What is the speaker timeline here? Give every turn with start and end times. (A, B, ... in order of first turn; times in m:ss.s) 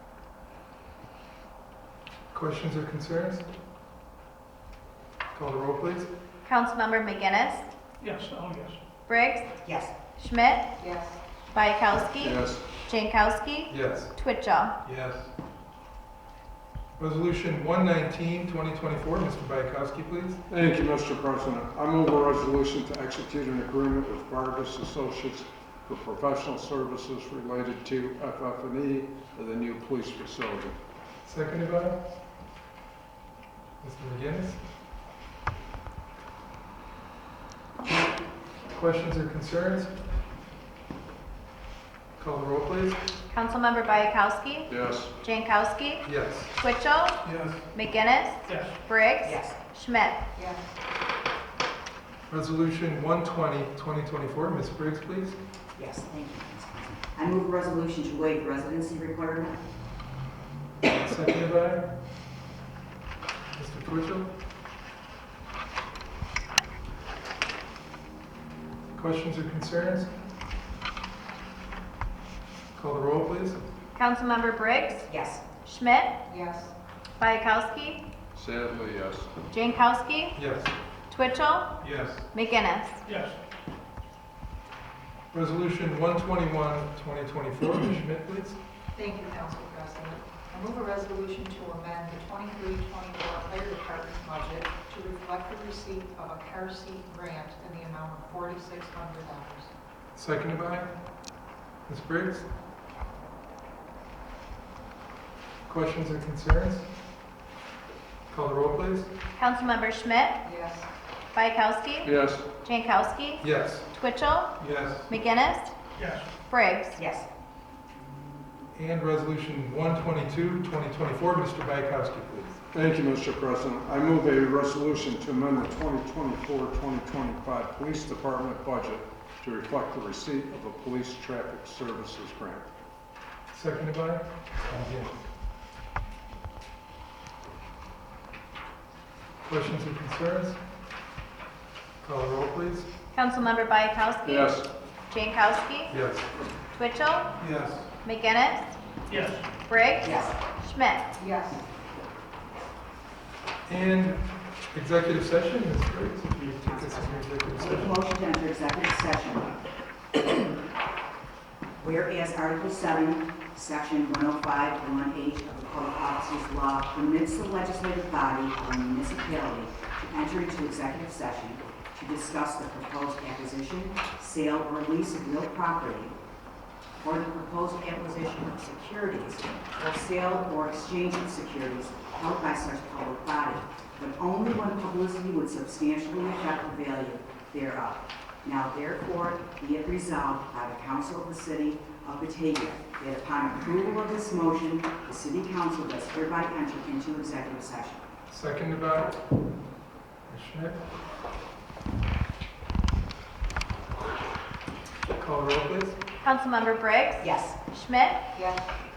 0:02.3-0:03.5 A
0:05.3-0:06.1 A
0:06.4-0:07.7 B
0:08.0-0:08.8 C
0:09.1-0:09.5 B
0:09.6-0:09.9 D
0:10.2-0:10.7 B
0:10.8-0:11.2 E
0:11.5-0:14.8 B
0:12.2-0:12.6 F
0:13.7-0:14.1 A
0:14.8-0:15.3 A
0:17.0-0:20.4 A
0:20.5-0:30.8 F
0:31.2-0:32.0 A
0:33.8-0:34.6 A
0:38.7-0:39.9 A
0:42.2-0:43.0 A
0:43.3-0:46.1 B
0:44.7-0:45.1 F
0:46.0-0:46.5 A
0:46.6-0:47.2 B
0:47.2-0:47.6 A
0:47.7-0:50.2 B
0:48.5-0:48.8 C
0:49.2-0:49.6 D
0:50.4-0:50.6 E
0:52.3-0:55.4 A
0:55.8-0:59.6 D
1:00.8-1:01.9 A
1:03.6-1:04.3 A
1:08.9-1:10.1 A
1:12.8-1:13.6 A
1:14.0-1:15.1 B
1:15.1-1:15.4 D
1:15.6-1:16.2 B
1:16.3-1:16.7 E
1:17.2-1:18.0 B
1:18.3-1:19.3 F
1:19.5-1:20.4 B
1:20.4-1:20.7 A
1:21.1-1:21.8 B
1:21.8-1:22.3 A
1:22.3-1:23.0 B
1:23.1-1:23.4 C
1:25.3-1:28.6 A
1:29.0-1:39.7 E
1:40.2-1:40.9 A
1:41.9-1:42.5 A
1:45.7-1:46.9 A
1:48.3-1:49.1 A
1:49.4-1:50.4 B
1:50.4-1:50.9 E
1:51.3-1:52.1 B
1:52.0-1:52.5 F
1:52.6-1:54.6 B
1:53.4-1:53.9 A
1:54.6-1:55.1 A
1:55.1-1:55.7 B
1:56.0-1:56.3 C
1:56.5-1:57.0 B
1:57.0-1:57.3 D
1:58.7-2:02.6 A
2:02.7-2:12.7 F
2:13.5-2:15.2 A
2:19.4-2:20.6 A
2:22.0-2:22.9 A
2:23.1-2:25.9 B
2:24.2-2:24.7 F
2:25.9-2:26.3 A
2:26.8-2:27.3 B
2:27.4-2:27.9 A
2:28.0-2:28.8 B
2:29.1-2:29.5 C
2:29.7-2:31.1 B
2:30.0-2:30.4 D
2:31.2-2:31.6 E
2:33.7-2:34.2 A
2:34.7-2:37.9 A
2:36.4-2:39.6 D
2:41.8-2:56.2 D
2:57.0-3:18.0 D
3:18.3-3:19.2 A
3:20.3-3:20.8 A
3:25.1-3:26.0 A
3:26.2-3:28.2 B
3:27.2-3:27.6 D
3:28.4-3:28.6 E